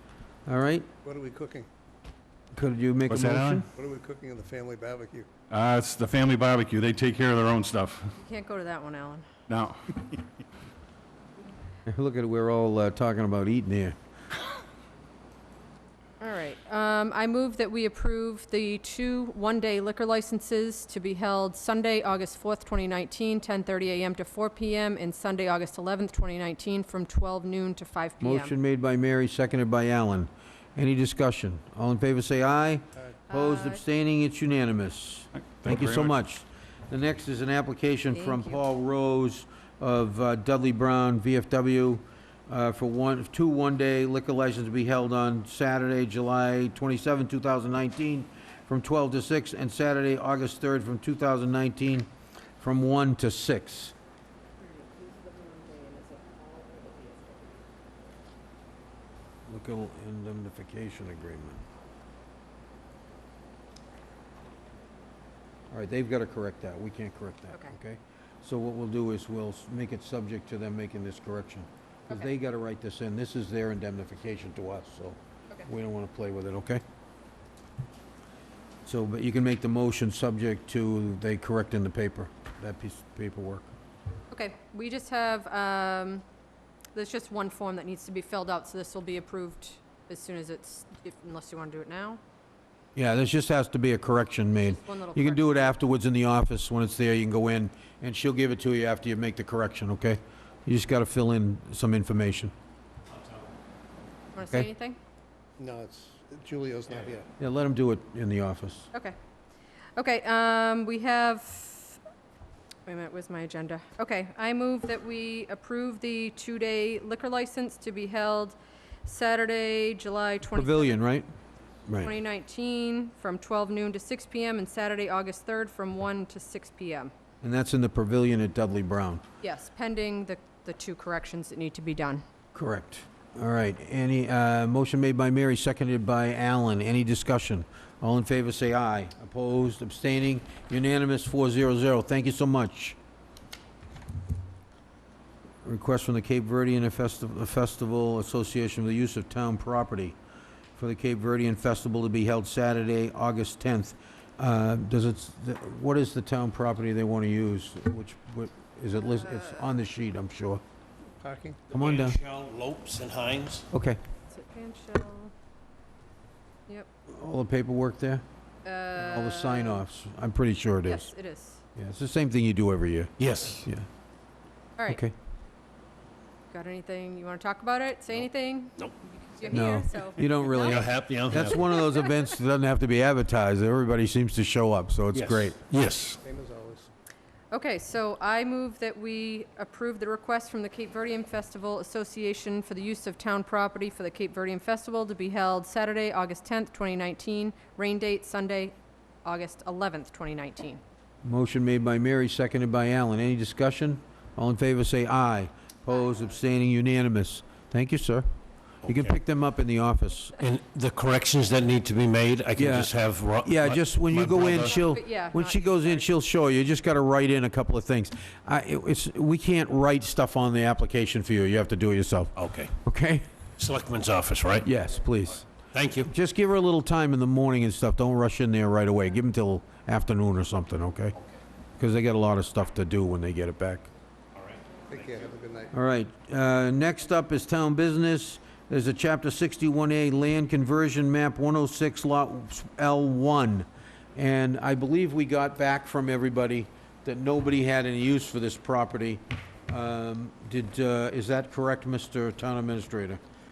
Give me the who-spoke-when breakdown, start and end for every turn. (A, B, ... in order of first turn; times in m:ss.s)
0:00.4-0:00.9 A
0:01.0-0:01.7 B
0:02.5-0:03.7 A
0:03.1-0:03.6 C
0:03.7-0:05.3 B
0:05.5-0:08.1 C
0:08.2-0:09.3 D
0:09.5-0:10.2 C
0:11.8-0:14.0 A
0:16.2-0:28.5 D
0:28.2-0:52.1 A
0:33.3-0:33.8 D
0:35.4-0:36.1 C
0:38.1-0:38.6 D
0:52.6-0:53.9 A
0:54.6-0:57.6 D
0:59.5-1:01.6 A
1:05.7-1:16.8 A
1:18.8-1:23.7 A
1:24.3-1:26.2 D
1:26.9-1:32.2 D
1:32.9-1:42.5 A
1:34.5-1:35.7 D
1:44.3-1:45.0 D
1:45.6-1:47.3 B
1:47.4-1:48.9 A
1:50.0-1:52.0 D
1:52.8-2:01.0 D
2:00.5-2:01.3 A
2:01.9-2:02.1 A
2:02.0-2:07.1 D
2:07.4-2:09.2 A
2:09.4-2:12.2 D
2:12.5-2:23.0 A
2:25.6-2:30.2 A
2:30.7-2:40.6 A
2:39.0-2:39.7 D
2:41.2-2:41.6 B
2:41.7-2:43.6 E
2:41.7-2:42.2 A
2:43.7-2:44.0 A
2:44.3-2:45.3 D
2:47.1-2:48.2 A
2:48.6-2:49.8 D
2:48.9-2:51.1 A
2:50.8-2:51.6 D
2:51.7-2:53.9 A
2:53.2-2:53.7 E
2:54.9-2:55.1 A
2:56.5-3:00.8 D
2:59.5-3:05.6 A
3:00.5-3:01.7 E
3:01.4-3:01.8 D
3:05.1-3:06.2 E
3:06.2-3:06.9 B
3:07.5-3:20.8 D
3:21.2-3:28.2 A
3:28.8-3:29.1 E
3:28.8-3:30.4 A
3:30.4-3:34.8 E
3:32.6-3:43.2 A
3:34.4-3:36.1 D
3:42.4-3:42.7 E
3:43.6-3:44.7 E
3:44.6-3:45.5 A
3:45.7-3:46.1 E
3:46.0-3:51.2 A
3:51.8-3:53.9 A
3:54.9-3:55.7 B
3:55.7-4:13.2 A